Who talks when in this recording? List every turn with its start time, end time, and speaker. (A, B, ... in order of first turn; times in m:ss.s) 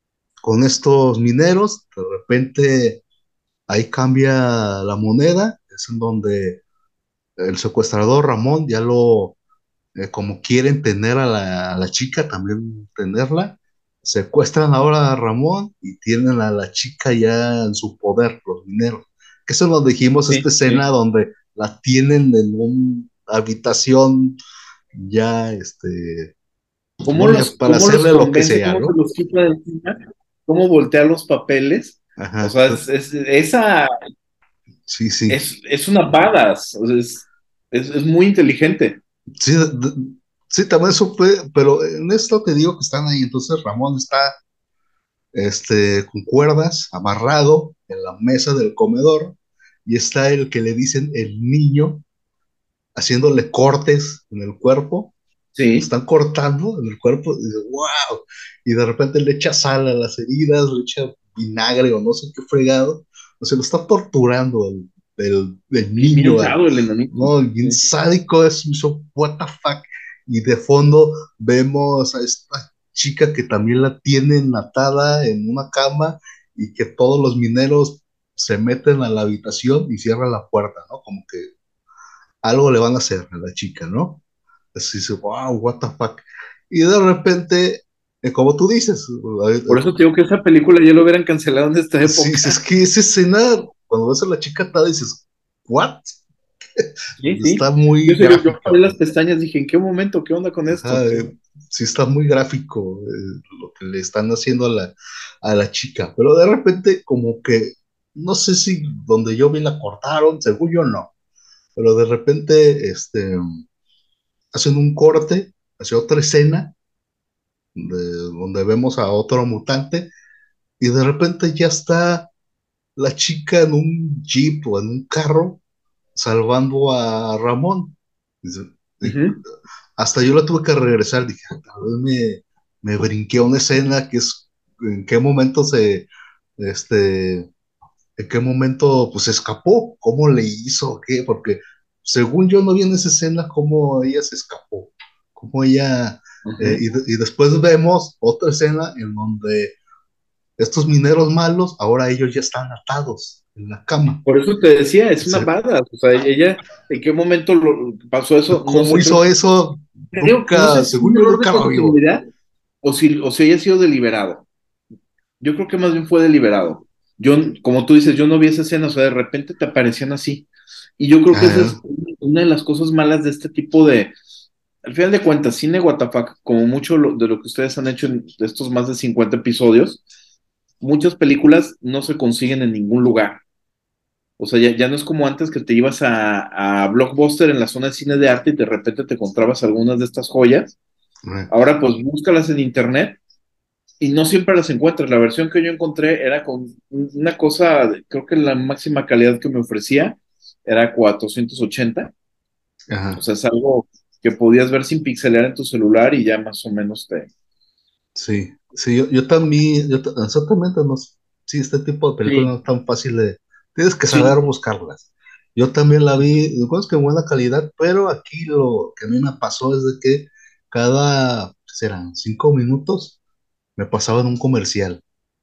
0:00.4-0:03.0 A
0:03.7-0:06.6 A
0:07.4-0:09.4 A
0:10.0-0:24.4 A
0:20.3-0:20.8 B
0:24.9-0:26.3 A
0:27.0-0:29.0 A
0:27.1-0:33.9 B
0:32.2-0:32.8 A
0:34.9-0:35.4 A
0:35.3-0:39.0 B
0:39.4-0:44.4 A
0:45.3-0:52.0 A
0:53.0-0:55.1 A
0:55.5-0:55.9 B
0:55.8-1:06.6 A
1:06.0-1:07.8 B
1:07.1-1:21.5 A
1:22.4-1:24.2 A
1:24.7-1:29.8 A
1:29.7-1:32.6 B
1:32.0-1:36.2 A
1:36.8-1:38.9 A
1:37.2-1:41.3 B
1:40.7-1:51.1 A
1:51.8-1:53.4 A
1:54.5-1:56.7 A
1:57.7-2:00.1 A
2:00.8-2:02.3 A
2:03.0-2:05.6 A
2:06.1-2:09.2 A
2:09.0-2:09.4 B
2:10.0-2:16.1 A
2:16.6-2:17.5 A
2:18.2-2:29.8 A
2:26.4-2:26.8 B
2:30.6-2:34.2 A
2:34.2-2:39.3 B
2:35.2-2:35.5 A
2:38.5-2:42.0 A
2:40.1-2:42.2 B
2:42.8-2:44.5 B
2:45.4-2:50.5 B
2:51.0-2:54.1 B
2:51.3-2:51.8 A
2:54.8-3:00.0 B
3:00.8-3:03.4 B
3:04.4-3:10.8 B
3:11.5-3:13.2 B
3:14.0-3:22.1 B
3:22.9-3:23.2 A
3:23.2-3:27.3 B
3:28.1-3:43.2 A
3:32.2-3:32.5 B
3:34.1-3:34.3 B
3:43.8-3:45.0 A